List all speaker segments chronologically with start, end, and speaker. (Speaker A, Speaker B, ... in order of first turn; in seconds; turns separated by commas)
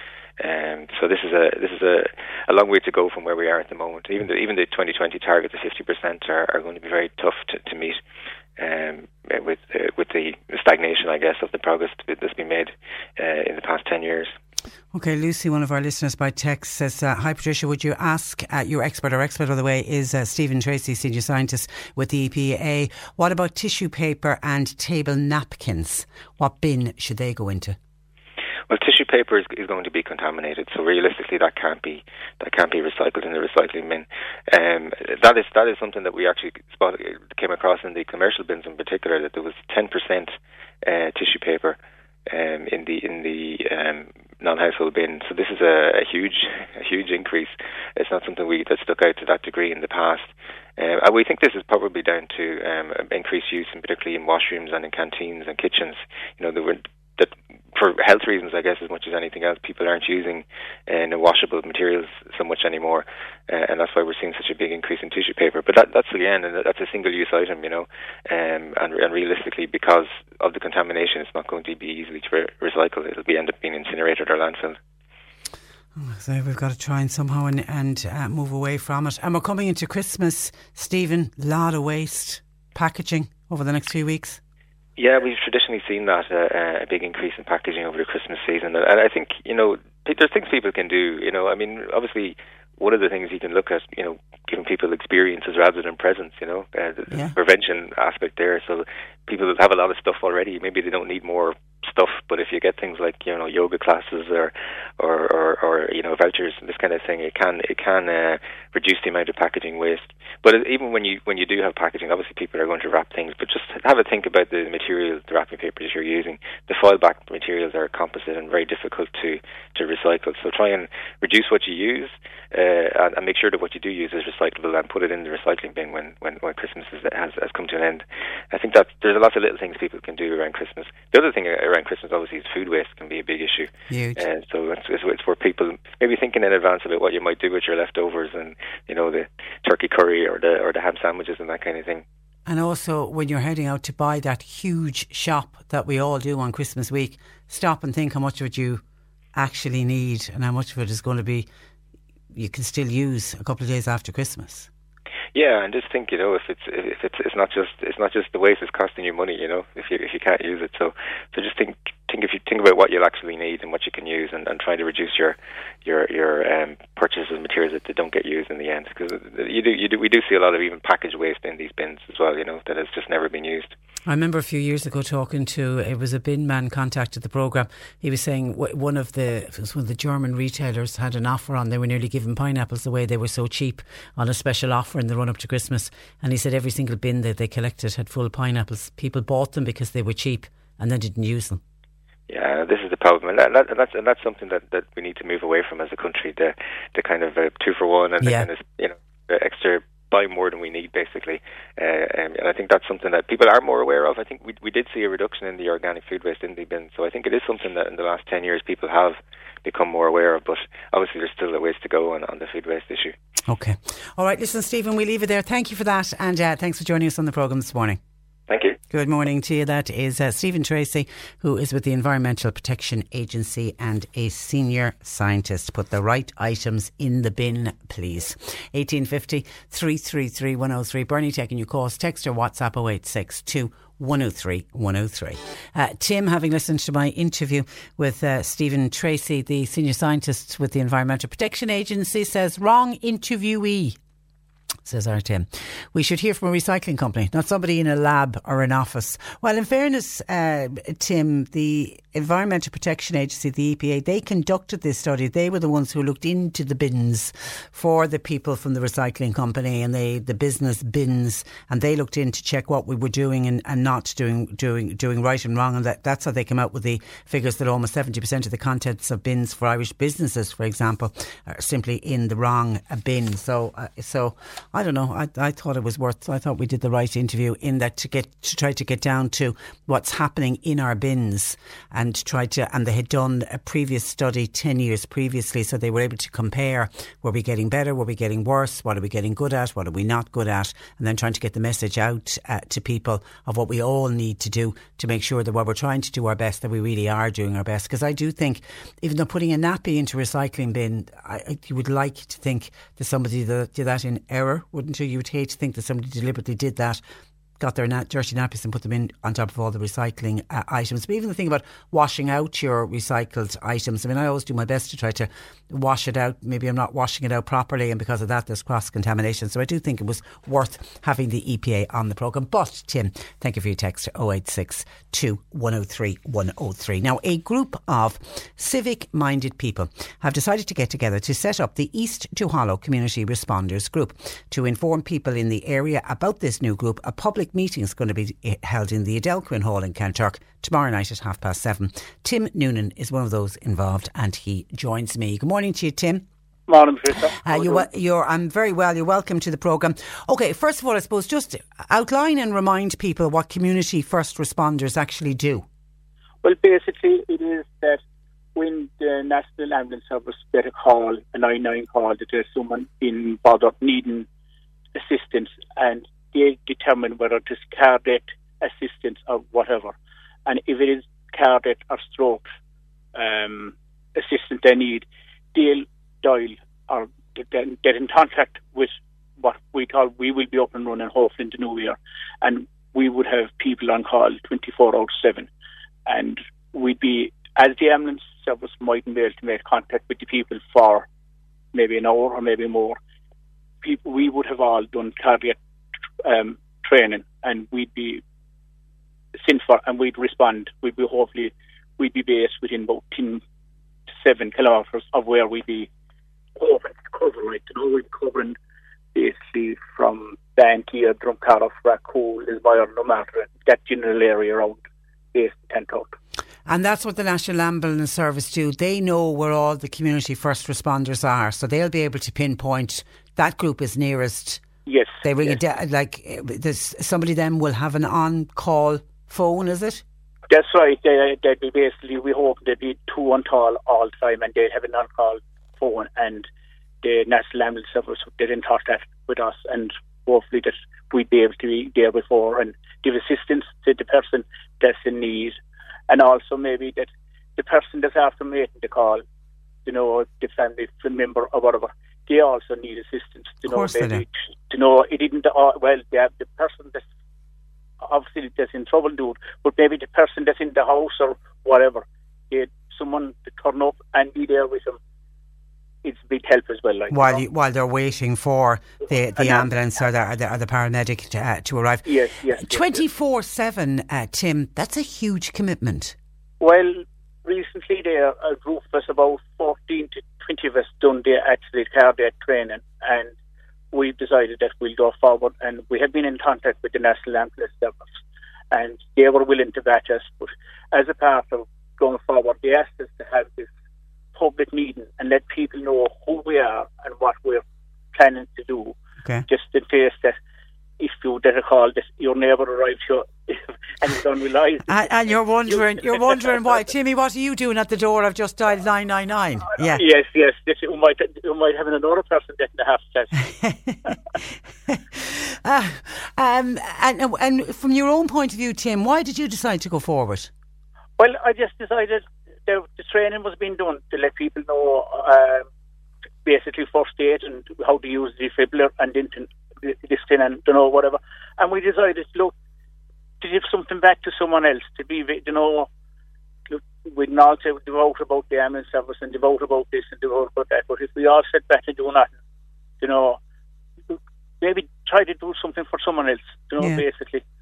Speaker A: 0.4-8.0, Speaker A: 8.6-14.3, Speaker B: 14.9-27.8, Speaker A: 28.7-74.8, Speaker B: 76.0-84.4, Speaker A: 85.0-142.0, Speaker B: 97.1-97.3, Speaker B: 133.9-134.2, Speaker B: 142.5-148.8, Speaker B: 149.3-151.5, Speaker B: 152.3-154.7, Speaker A: 155.3-173.7, Speaker B: 174.1-191.6, Speaker A: 192.3-213.2, Speaker B: 198.2-198.5, Speaker B: 213.5-218.0, Speaker A: 218.5-218.8, Speaker B: 218.9-244.0, Speaker B: 244.8-307.0, Speaker B: 307.6-346.2, Speaker C: 346.7-347.9, Speaker B: 347.4-355.6, Speaker C: 356.4-358.0, Speaker C: 358.5-364.3, Speaker C: 364.9-369.9, Speaker C: 370.4-372.5, Speaker C: 373.1-385.5, Speaker C: 386.1-391.1, Speaker C: 391.7-393.0, Speaker C: 393.8-395.6, Speaker C: 396.2-398.2, Speaker C: 399.4-403.4, Speaker C: 404.1-405.9, Speaker C: 406.6-408.6, Speaker C: 409.1-414.8, Speaker C: 415.3-416.1, Speaker B: 416.7-424.6, Speaker C: 424.9-425.6, Speaker B: 425.2-430.0, Speaker C: 430.5-436.4, Speaker C: 437.0-445.6, Speaker C: 446.1-449.2, Speaker C: 449.9-457.0, Speaker B: 453.6-454.2, Speaker C: 458.0-465.0, Speaker C: 466.0-467.4, Speaker B: 467.1-476.1, Speaker C: 469.4-469.7, Speaker C: 472.1-473.0, Speaker C: 476.6-483.3, Speaker C: 483.9-488.0, Speaker C: 488.7-493.7, Speaker C: 494.4-498.9, Speaker C: 499.5-500.4, Speaker C: 501.0-506.8, Speaker B: 504.9-510.0, Speaker C: 509.8-513.4, Speaker B: 513.6-514.1, Speaker B: 514.9-520.5, Speaker C: 521.2-525.6, Speaker C: 526.4-532.5, Speaker C: 533.4-535.9, Speaker C: 536.7-542.3, Speaker C: 543.0-543.4, Speaker C: 544.1-547.4